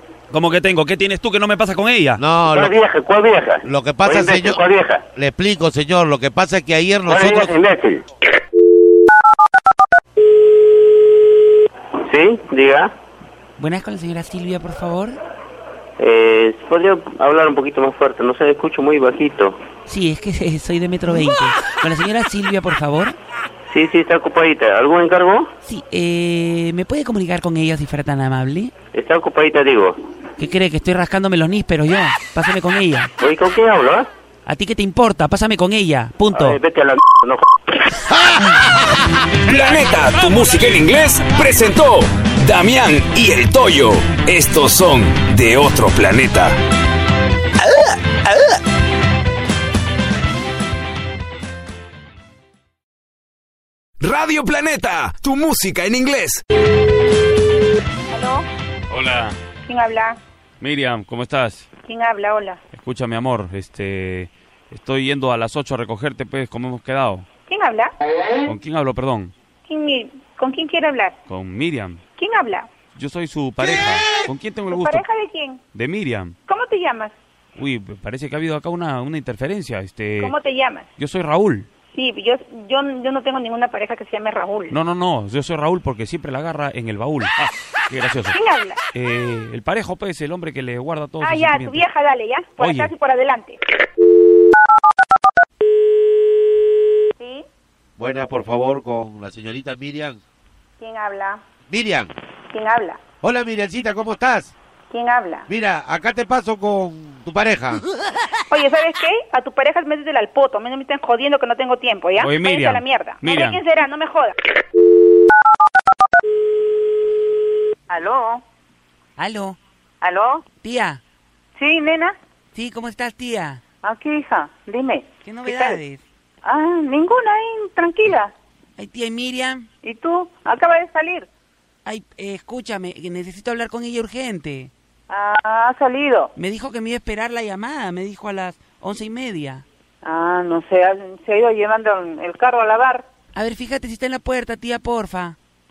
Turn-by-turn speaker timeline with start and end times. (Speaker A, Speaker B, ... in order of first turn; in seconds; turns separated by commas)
Speaker A: 0.3-2.2, Speaker B: 2.2-2.8, Speaker C: 2.5-5.0, Speaker B: 3.6-4.6, Speaker B: 5.2-7.5, Speaker C: 7.1-8.0, Speaker C: 12.1-12.9, Speaker D: 13.6-15.2, Speaker C: 16.0-19.6, Speaker D: 19.9-23.2, Speaker C: 23.7-25.5, Speaker D: 25.6-28.7, Speaker C: 28.9-30.0, Speaker D: 30.4-33.1, Speaker C: 33.2-34.1, Speaker D: 34.5-36.6, Speaker C: 36.3-37.5, Speaker E: 39.5-46.6, Speaker A: 39.5-41.1, Speaker E: 54.0-56.4, Speaker F: 58.1-58.5, Speaker A: 58.9-59.4, Speaker F: 59.7-60.2, Speaker A: 60.6-61.6, Speaker F: 61.9-62.6, Speaker A: 62.7-67.3, Speaker F: 67.5-67.9, Speaker A: 68.5-69.3, Speaker F: 69.7-71.2, Speaker A: 71.3-72.0, Speaker F: 72.2-72.7, Speaker A: 73.0-75.0, Speaker F: 74.7-75.6, Speaker A: 75.7-76.3, Speaker F: 76.5-77.1, Speaker A: 77.6-80.3, Speaker F: 80.2-80.9, Speaker A: 81.0-81.7, Speaker F: 81.9-84.8, Speaker A: 84.7-88.3, Speaker F: 88.3-88.8, Speaker A: 88.9-91.8, Speaker F: 91.2-93.6, Speaker A: 92.6-92.9, Speaker F: 97.2-97.5, Speaker B: 98.0-100.2, Speaker F: 100.8-101.4, Speaker B: 101.7-102.1, Speaker F: 102.5-103.0, Speaker B: 103.2-104.5, Speaker F: 104.9-105.5, Speaker B: 105.5-107.8, Speaker F: 108.5-114.4, Speaker A: 112.2-113.6, Speaker F: 117.9-118.4, Speaker D: 119.2-119.6, Speaker F: 120.0-120.4, Speaker D: 120.6-121.0, Speaker F: 121.6-122.2, Speaker D: 122.5-123.6, Speaker F: 123.8-125.8, Speaker D: 125.2-126.0, Speaker F: 126.5-128.3, Speaker D: 128.8-129.7, Speaker F: 129.8-131.3, Speaker D: 131.8-134.7, Speaker F: 135.1-136.3, Speaker D: 136.4-139.7, Speaker F: 140.0-143.0, Speaker D: 143.3-145.4